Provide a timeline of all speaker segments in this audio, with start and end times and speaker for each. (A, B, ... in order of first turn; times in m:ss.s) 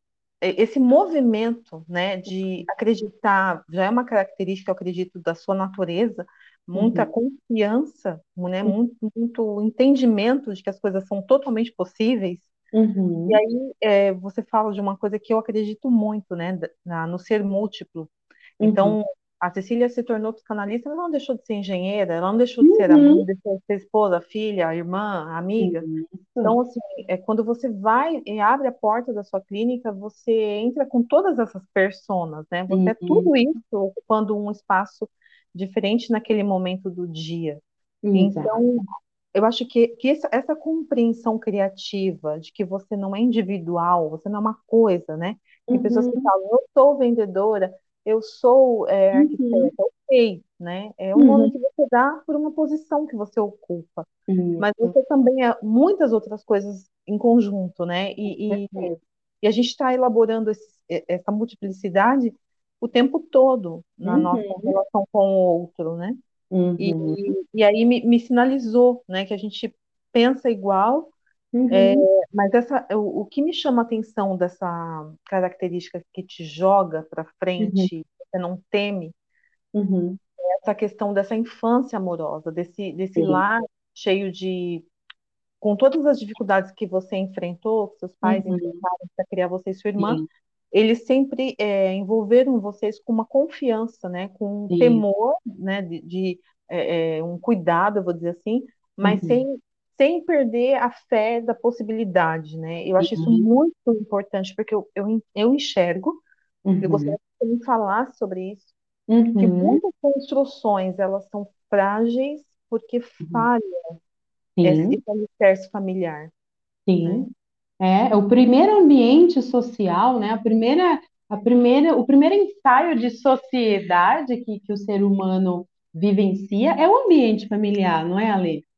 0:00.4-0:12.5 A
0:06.7-0:07.1 B
0:12.7-0:13.4 B
0:13.3-0:18.1 A
0:18.6-0:19.0 B
0:18.6-0:25.8 A
0:22.6-0:23.2 B
0:25.6-0:26.5 B
0:26.4-0:37.6 A
0:32.7-0:33.3 B
0:38.0-0:38.5 B
0:38.1-0:54.1 A
0:45.7-0:46.3 B
0:49.1-0:49.7 B
0:51.2-0:51.5 B
0:54.3-0:54.9 B
0:54.6-0:58.9 A
0:58.3-0:59.0 B
0:59.4-1:06.2 A
1:04.0-1:04.7 B
1:06.5-1:07.2 B
1:06.8-1:11.1 A
1:11.5-1:12.0 B
1:11.7-1:19.1 A
1:17.6-1:17.9 B
1:19.7-1:20.2 B
1:20.4-1:24.8 A
1:23.2-1:23.4 B
1:25.6-1:30.2 A
1:28.2-1:28.8 B
1:30.0-1:30.2 B
1:30.7-1:46.2 A
1:34.7-1:35.0 B
1:39.0-1:39.4 B
1:43.0-1:43.4 B
1:46.6-1:47.2 B
1:46.8-1:48.7 A
1:49.1-1:49.8 B
1:49.4-1:54.0 A
1:53.2-1:53.5 B
1:54.6-1:55.0 B
1:54.6-1:56.3 A
1:56.9-1:57.3 B
1:57.0-1:57.3 A
1:57.8-2:08.6 B